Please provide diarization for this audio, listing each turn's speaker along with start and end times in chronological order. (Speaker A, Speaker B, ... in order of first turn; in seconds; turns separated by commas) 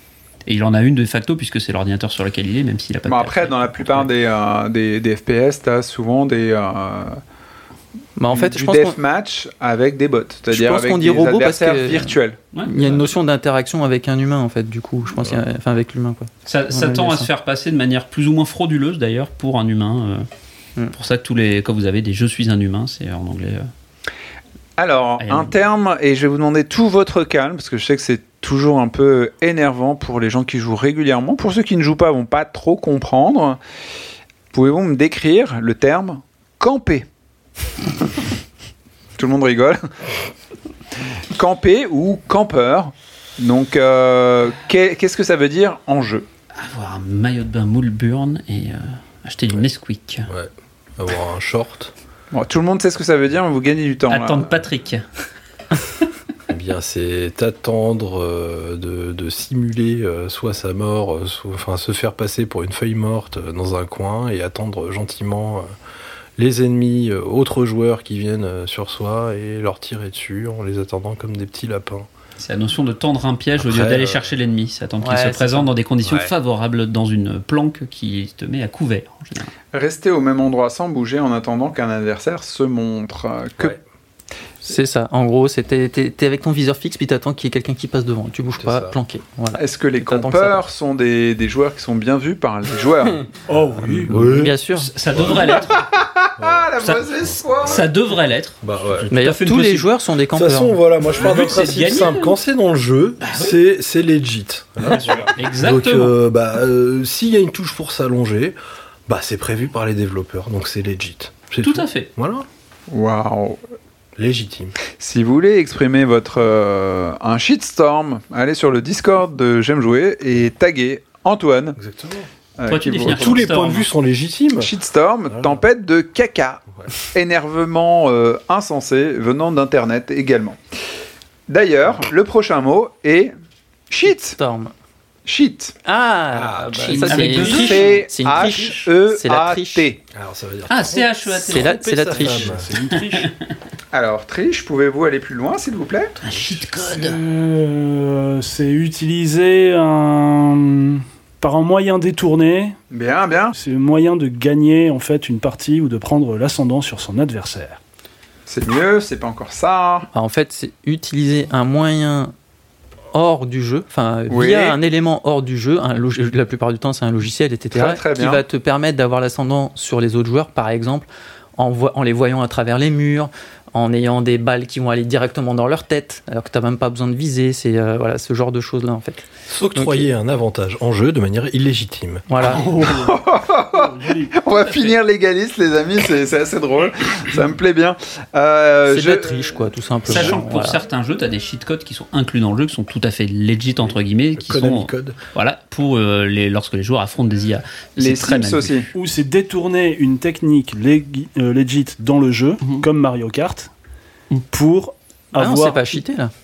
Speaker A: 0.5-4.1, Speaker B: 3.1-7.2, Speaker C: 8.2-9.0, Speaker B: 8.3-12.4, Speaker C: 10.5-17.3, Speaker A: 12.5-12.9, Speaker A: 16.5-20.3, Speaker A: 20.9-23.7, Speaker B: 24.8-33.6, Speaker A: 25.2-25.5, Speaker B: 34.5-37.1, Speaker B: 39.2-39.9, Speaker B: 41.3-46.3, Speaker A: 46.6-50.3, Speaker D: 50.3-51.9, Speaker B: 52.3-54.6, Speaker A: 54.1-55.0, Speaker D: 56.5-65.7, Speaker D: 66.4-72.1, Speaker A: 72.4-79.5, Speaker D: 73.6-74.3, Speaker C: 75.0-75.7, Speaker D: 76.0-76.3, Speaker B: 79.7-83.7, Speaker C: 84.6-90.7, Speaker D: 88.6-89.0, Speaker B: 89.5-93.3, Speaker E: 93.5-94.2, Speaker D: 93.9-94.5, Speaker C: 94.2-94.9, Speaker A: 94.8-95.7, Speaker D: 95.1-95.7, Speaker B: 95.2-97.8, Speaker D: 96.4-97.9, Speaker A: 97.6-99.9, Speaker D: 98.6-99.1, Speaker C: 99.1-100.8, Speaker D: 100.3-112.5, Speaker A: 101.2-102.4, Speaker A: 103.2-103.6, Speaker A: 104.8-106.1, Speaker A: 111.6-112.1, Speaker B: 112.9-113.6, Speaker D: 114.2-114.8, Speaker B: 115.0-121.8, Speaker D: 121.8-122.3, Speaker B: 122.6-123.5, Speaker A: 122.7-123.9, Speaker D: 123.1-124.7, Speaker B: 124.6-130.6, Speaker D: 125.3-125.6, Speaker B: 131.5-133.3, Speaker B: 133.9-134.4, Speaker C: 134.1-134.7, Speaker B: 135.3-135.8, Speaker C: 135.9-139.9, Speaker D: 136.3-137.3, Speaker A: 136.7-138.1, Speaker B: 137.2-140.0, Speaker D: 140.1-142.7, Speaker A: 140.7-142.1, Speaker C: 141.3-142.6, Speaker E: 142.1-143.3, Speaker A: 143.0-143.3, Speaker B: 143.9-146.2, Speaker A: 146.2-147.2, Speaker E: 146.8-152.8, Speaker B: 152.9-153.6, Speaker E: 153.6-157.8, Speaker B: 158.5-160.1, Speaker C: 160.1-162.3, Speaker C: 163.1-180.1, Speaker B: 164.3-164.8, Speaker B: 167.7-168.4, Speaker D: 179.5-182.3, Speaker C: 182.3-182.6, Speaker A: 182.4-182.8, Speaker B: 182.6-190.4, Speaker E: 183.7-184.4, Speaker A: 184.7-184.9, Speaker C: 188.9-190.8, Speaker A: 190.1-198.8, Speaker D: 194.4-195.2, Speaker B: 198.0-198.9, Speaker E: 198.9-203.7, Speaker E: 204.4-206.0, Speaker C: 205.3-206.3